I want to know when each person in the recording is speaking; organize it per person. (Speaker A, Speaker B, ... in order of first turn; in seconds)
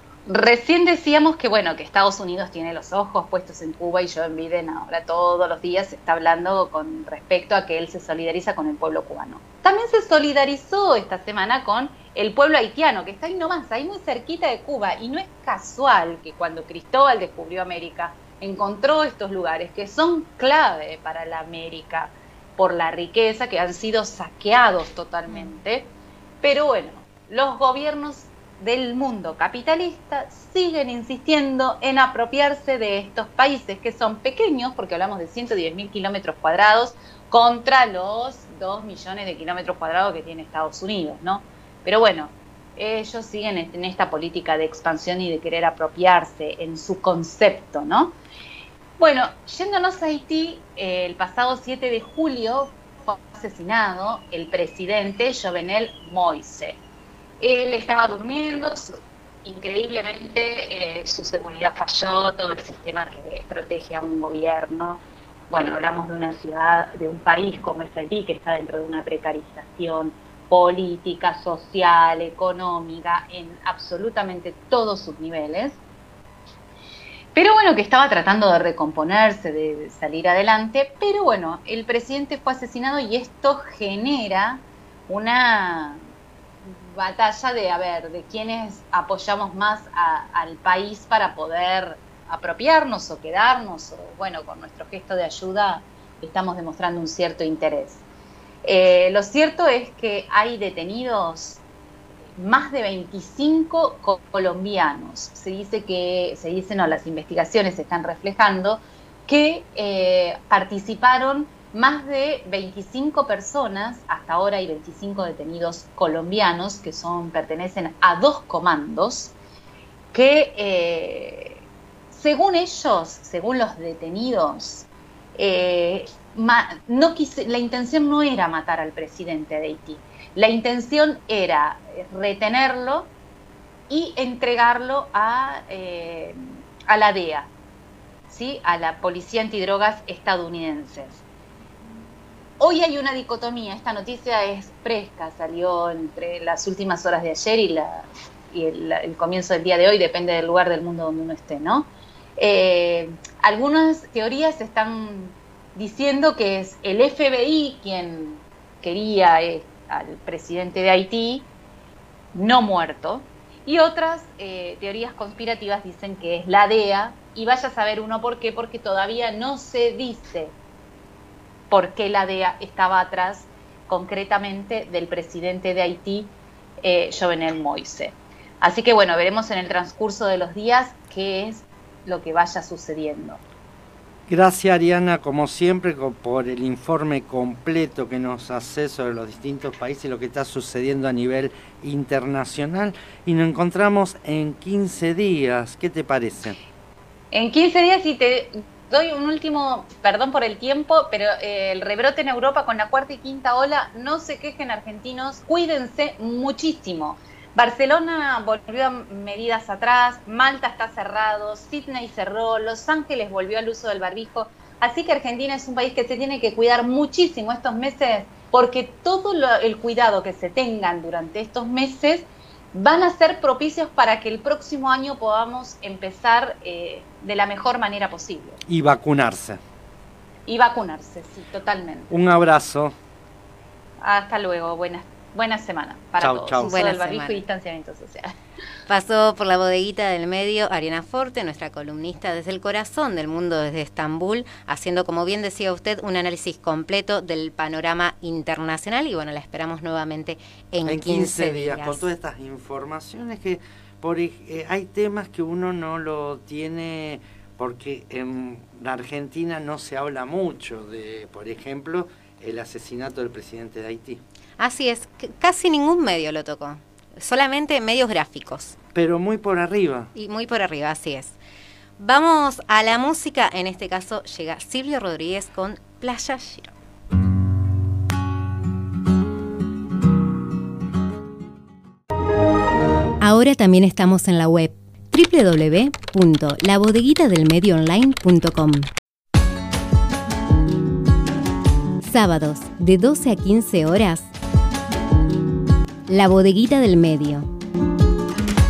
Speaker A: 0.3-48.1, 49.0-56.8, 57.4-75.8, 77.3-86.0, 86.6-98.0, 98.6-101.6, 102.4-119.3, 120.1-133.1, 133.9-137.5, 138.3-141.2, 142.6-161.5, 162.3-170.5, 171.7-183.4, 197.3-228.6, 230.5-232.1, 234.0-238.3
Speaker B: 184.3-196.6, 228.7-229.6, 232.1-232.9, 236.2-236.8, 250.8-264.2, 268.9-270.1
Speaker C: 236.6-237.4, 238.9-252.1, 264.6-268.8, 270.1-271.4, 272.0-276.7, 283.2-288.9, 292.0-294.3, 296.1-297.5